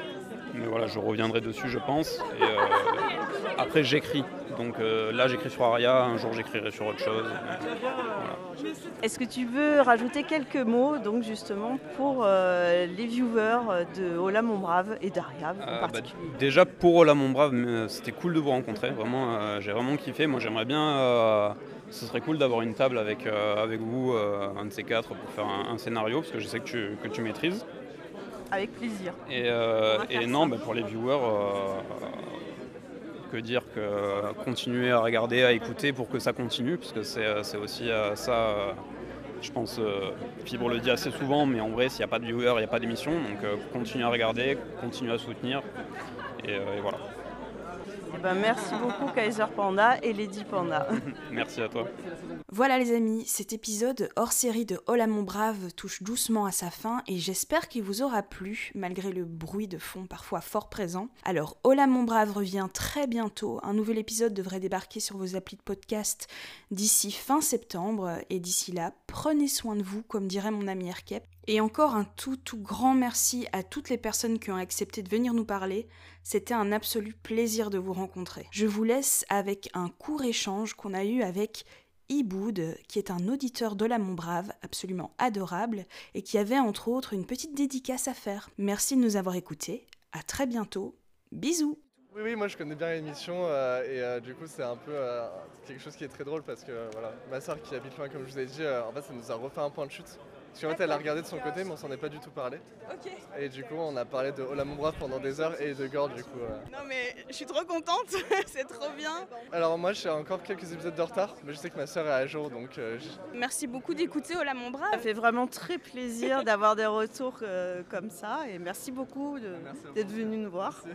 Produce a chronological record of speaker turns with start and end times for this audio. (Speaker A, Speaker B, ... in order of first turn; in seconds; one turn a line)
Speaker A: 0.5-8.4
Speaker B: 9.0-16.3
Speaker A: 15.6-27.6
Speaker B: 28.5-29.2
Speaker A: 29.3-32.4
Speaker B: 29.9-30.6
Speaker A: 33.2-38.8
Speaker A: 39.4-45.6
Speaker A: 46.4-47.0
Speaker B: 48.1-51.0
Speaker A: 51.0-51.9
Speaker C: 52.5-91.8
Speaker D: 92.1-102.7
Speaker E: 102.8-103.2
Speaker D: 103.3-106.7
Speaker E: 106.7-109.3
Speaker D: 109.5-113.2
Speaker E: 113.3-115.1
Speaker B: 114.9-120.8
Speaker D: 119.6-120.2